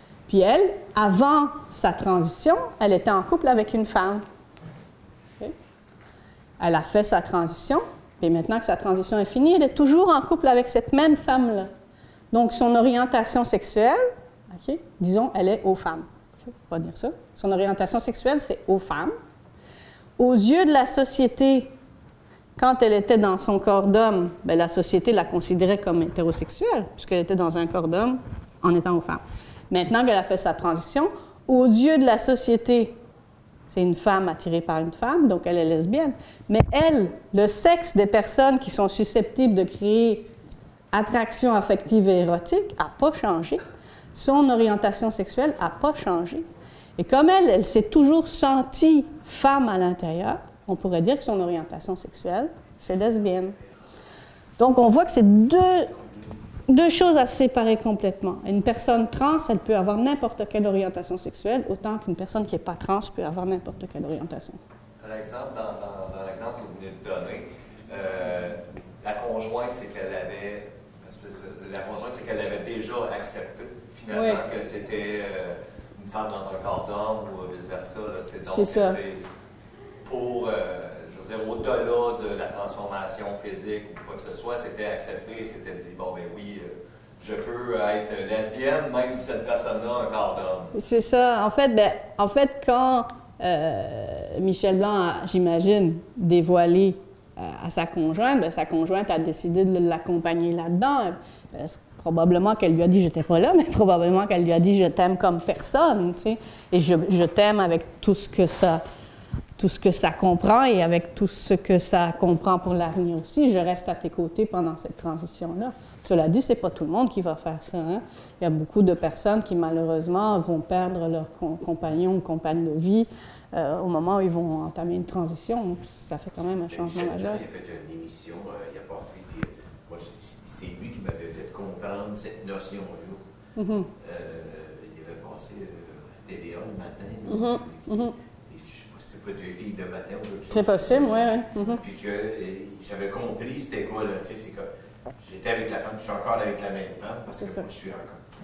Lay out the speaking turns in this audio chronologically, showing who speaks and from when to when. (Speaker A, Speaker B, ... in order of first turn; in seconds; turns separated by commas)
Speaker A: 0.3-4.2, Speaker A: 6.6-11.7, Speaker A: 12.3-19.1, Speaker A: 20.2-21.7, Speaker A: 22.6-33.0, Speaker A: 33.7-40.3, Speaker A: 40.9-43.6, Speaker A: 44.1-53.5, Speaker A: 54.6-56.0, Speaker A: 56.7-64.6, Speaker B: 65.0-79.2, Speaker A: 74.1-74.4, Speaker A: 78.5-79.0, Speaker B: 80.0-90.7, Speaker A: 90.7-108.8, Speaker A: 109.6-127.4, Speaker C: 126.7-133.2, Speaker A: 133.6-133.9, Speaker C: 134.0-144.7, Speaker A: 137.2-138.1, Speaker A: 140.5-141.8, Speaker C: 145.2-148.2